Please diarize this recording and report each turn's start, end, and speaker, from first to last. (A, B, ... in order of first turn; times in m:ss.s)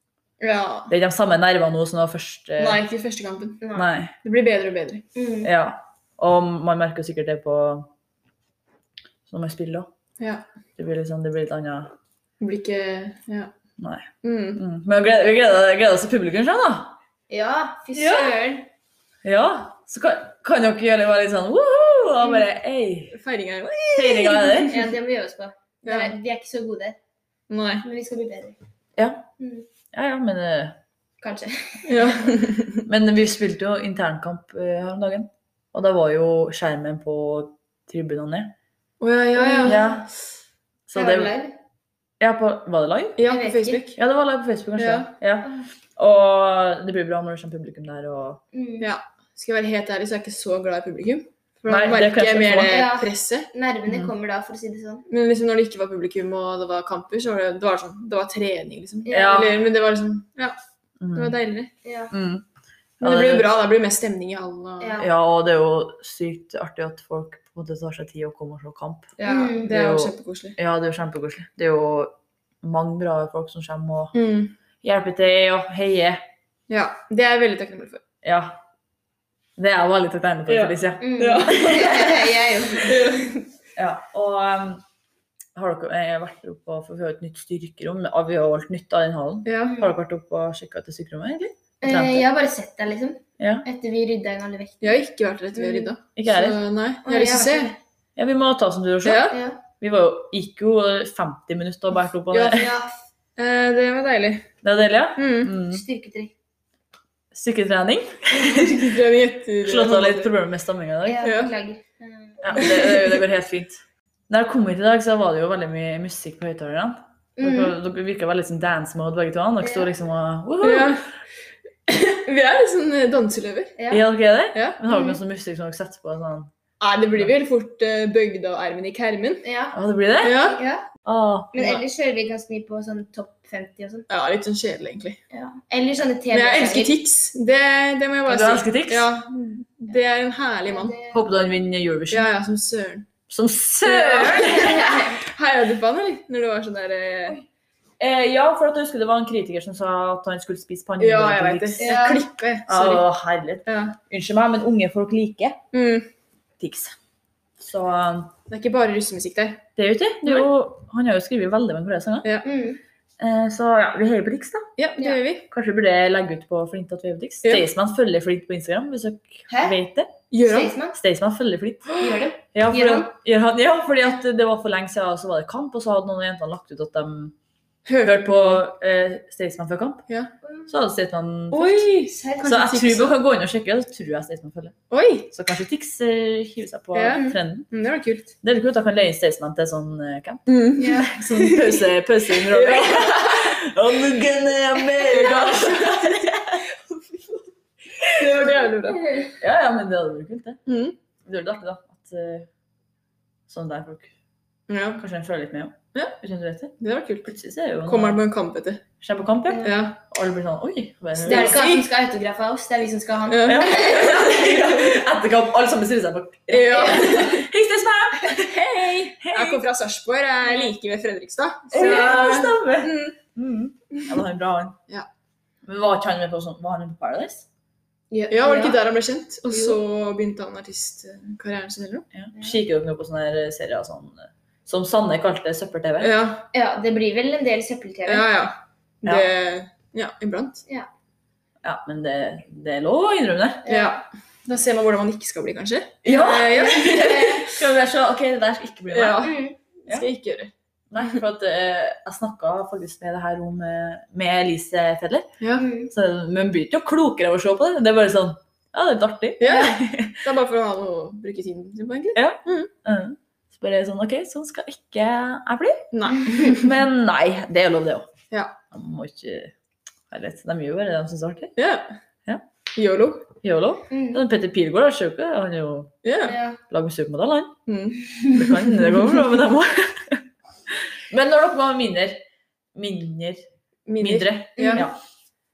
0:00.4-0:00.9 A
0:00.9-0:02.8 B
0:02.6-0:03.6 A
0:03.6-0:03.9 C
0:03.8-0:04.1 B
0:04.2-0:05.0 A
0:05.2-0:05.5 C
0:05.4-0:07.9 B
0:09.3-0:09.9 B
0:10.2-0:10.4 A
0:10.8-0:11.9 B
0:12.4-0:13.5 A
0:13.8-0:17.0 B
0:14.2-0:14.6 A
0:17.3-0:18.7 C
0:18.0-0:18.3 B
0:19.2-0:23.2 B
0:23.1-0:24.8 A
0:23.9-0:24.8 B
0:24.7-0:27.0 C
0:25.8-0:26.1 A
0:27.5-0:27.8 A
0:27.8-0:28.6 C
0:29.0-0:29.3 B
0:29.4-0:29.6 C
0:29.9-0:30.8 B
0:31.2-0:32.2 C
0:31.9-0:32.8 A
0:32.8-0:38.5 B
0:39.0-0:39.8 A
0:39.4-0:40.0 C
0:39.6-0:40.1 B
0:40.9-0:41.3 B
0:41.0-0:41.5 C
0:42.2-0:43.2 B
0:43.2-0:44.0 A
0:43.3-0:43.8 C
0:44.0-0:48.4 B
0:44.8-0:45.1 A
0:48.5-0:48.9 C
0:48.8-0:53.5 A
0:51.7-0:52.8 B
0:52.7-0:55.1 C
0:53.9-0:54.1 B
0:55.1-1:00.6 A
0:59.1-0:59.4 C
0:59.1-0:59.6 B
1:01.0-1:01.4 B
1:01.2-1:01.7 A
1:01.8-1:02.1 C
1:02.1-1:02.4 B
1:03.0-1:03.5 B
1:03.0-1:05.0 A
1:04.8-1:05.1 C
1:05.0-1:14.1 B
1:09.2-1:10.6 A
1:09.3-1:09.7 C
1:14.1-1:14.5 A
1:14.8-1:16.2 B
1:16.7-1:18.0 A
1:18.2-1:18.6 B
1:19.6-1:21.1 B
1:20.5-1:23.5 A
1:21.0-1:23.1 C
1:23.8-1:24.8 B
1:25.6-1:32.3 B
1:29.4-1:29.8 A
1:31.8-1:35.0 C
1:33.4-1:33.6 B
1:34.8-1:37.7 A
1:35.6-1:35.9 C
1:36.2-1:36.6 B
1:37.0-1:37.8 C
1:38.2-1:42.7 B
1:39.0-1:39.4 A
1:39.3-1:39.6 C
1:42.3-1:42.7 A
1:42.5-1:42.9 C
1:43.4-1:44.5 A
1:44.6-1:45.8 B
1:45.2-1:45.5 A
1:45.7-1:46.3 C
1:47.3-1:49.0 B
1:48.3-1:48.7 C
1:48.6-1:50.3 A
1:49.6-1:51.3 B
1:51.0-1:52.7 C
1:51.2-1:51.5 A
1:52.4-2:01.0 B
1:52.6-1:53.2 A
1:57.4-1:57.7 C
1:59.6-1:59.9 C
2:00.6-2:01.0 A
2:01.9-2:03.7 A
2:03.9-2:06.5 B
2:04.9-2:05.2 C
2:06.8-2:09.4 A
2:09.4-2:10.9 C
2:09.7-2:10.4 B
2:10.2-2:10.6 A
2:11.0-2:11.7 B
2:11.5-2:14.1 C
2:14.1-2:15.2 A
2:15.3-2:17.0 C
2:16.3-2:21.0 A
2:18.3-2:19.1 B
2:20.7-2:21.2 C
2:21.1-2:22.3 B
2:22.1-2:23.1 A
2:23.3-2:24.9 B
2:23.8-2:27.4 A
2:24.4-2:25.2 C
2:28.0-2:32.0 B
2:31.0-2:33.1 A
2:31.8-2:32.2 C
2:32.7-2:35.6 B
2:33.7-2:34.0 A
2:35.7-2:36.1 A
2:36.6-2:37.0 B
2:37.6-2:38.3 B
2:38.5-2:39.6 A
2:39.8-2:42.3 B
2:42.4-2:42.8 C
2:43.2-2:44.7 B
2:44.8-2:45.5 A
2:45.5-2:50.1 B
2:49.5-2:49.8 C
2:50.3-2:50.8 A
2:50.4-2:51.0 C
2:51.0-2:52.0 B
2:52.0-2:53.1 C
2:52.5-2:57.4 B
2:57.9-2:58.6 A
2:58.0-3:00.1 B
3:00.5-3:00.7 C
3:00.7-3:01.9 B
3:01.5-3:03.1 A
3:02.1-3:03.0 C
3:02.4-3:04.8 B
3:04.9-3:05.3 A
3:05.3-3:07.7 B
3:06.9-3:08.3 A
3:08.4-3:16.6 B
3:10.5-3:13.6 A
3:10.8-3:11.1 C
3:15.0-3:17.4 A
3:18.1-3:19.0 A
3:19.4-3:20.6 B
3:20.7-3:21.0 A
3:21.2-3:22.5 B
3:23.5-3:24.1 B
3:24.7-3:25.0 A
3:25.0-3:28.2 B
3:26.8-3:27.3 A
3:27.9-3:28.8 A
3:29.0-3:31.7 B
3:29.6-3:30.0 A
3:31.2-3:31.8 A
3:31.2-3:34.3 C
3:33.3-3:34.9 A
3:33.5-3:39.6 B
3:36.5-3:37.5 A
3:36.7-3:37.3 C
3:39.3-3:43.2 A
3:41.7-3:42.5 C
3:41.7-3:44.8 B
3:45.6-3:47.5 B
3:48.1-3:48.8 C
3:48.3-3:52.1 A
3:49.5-3:49.8 C
3:52.1-3:56.1 B
3:56.0-3:56.5 A
3:56.5-3:58.3 C
3:58.1-4:00.6 A
4:01.6-4:03.6 B
4:03.6-4:04.0 C
4:03.7-4:07.3 A
4:06.0-4:09.3 B
4:06.1-4:07.6 C
4:08.9-4:10.5 A
4:09.2-4:09.6 C
4:10.9-4:15.3 B
4:15.4-4:15.6 A
4:15.6-4:15.9 C
4:15.9-4:20.2 B
4:19.4-4:22.7 A
4:22.2-4:28.1 B
4:25.9-4:26.7 A
4:28.7-4:29.5 B
4:30.1-4:31.6 B
4:31.6-4:31.9 A
4:32.8-4:33.3 A
4:33.4-4:35.9 B
4:33.9-4:34.2 C
4:36.0-4:36.4 A
4:36.2-4:36.6 C
4:36.7-4:37.6 B
4:37.7-4:38.1 A
4:38.2-4:42.2 B
4:42.8-4:43.5 B
4:43.9-4:44.9 A
4:44.0-4:45.0 B
4:44.6-4:44.9 C